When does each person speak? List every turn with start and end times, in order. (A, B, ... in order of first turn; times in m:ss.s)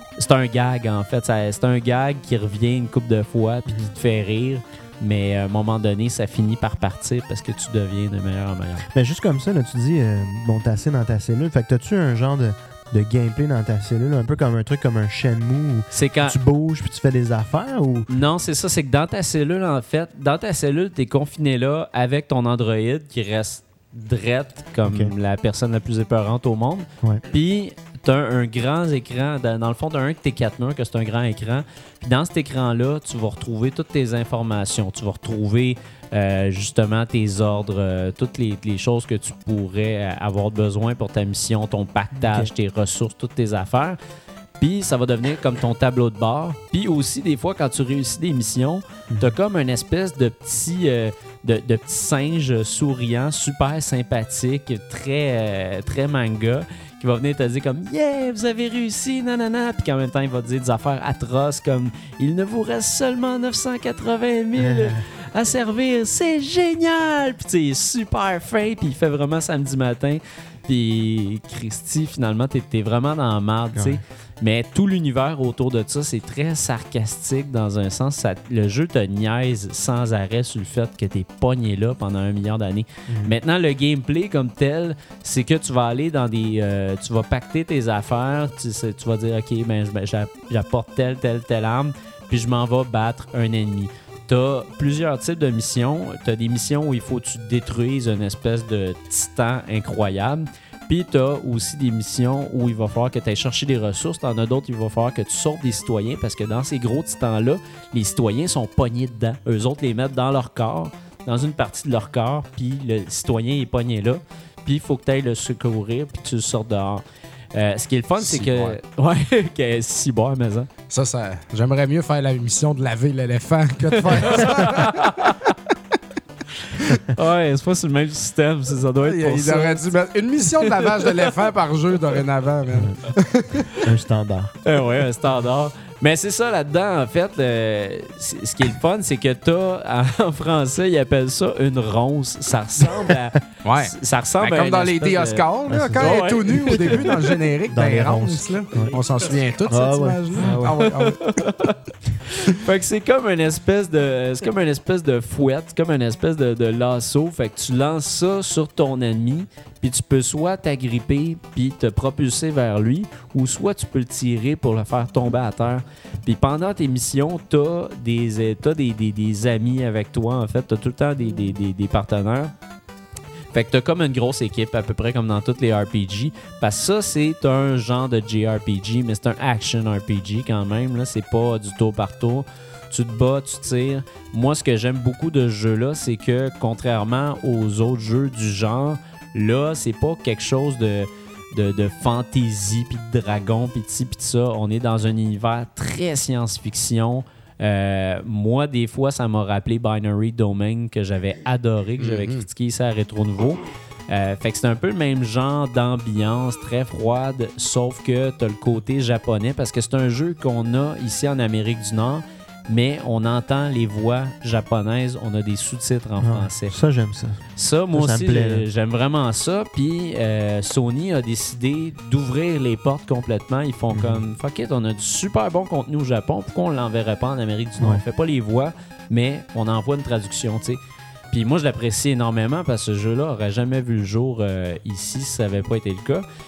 0:00.2-0:08.8 A
0:08.9-0:18.1 B
0:15.9-0:16.4 A
0:18.1-0:44.0 A
0:24.8-0:25.1 B
0:42.2-0:42.5 B
0:44.6-1:57.0 A
0:49.1-0:49.3 B
1:04.6-1:05.0 B
1:13.7-1:14.0 B
1:23.1-1:23.3 B
1:57.5-2:00.7 A
1:58.2-1:58.8 C
2:00.9-2:04.9 C
2:04.1-2:05.4 A
2:04.2-2:04.7 B
2:07.1-2:09.8 A
2:09.0-2:13.7 C
2:10.8-2:11.1 A
2:12.7-2:13.0 B
2:13.8-2:14.5 B
2:14.6-2:25.4 A
2:22.8-2:23.2 B
2:23.6-2:31.2 C
2:25.7-2:28.9 B
2:25.9-2:27.0 A
2:29.7-2:30.9 B
2:31.0-2:52.5 A
2:53.5-3:36.8 A
3:22.0-3:22.4 C
3:36.2-3:38.6 B
3:37.6-3:50.8 A
3:43.9-3:44.2 B
3:51.3-3:56.2 A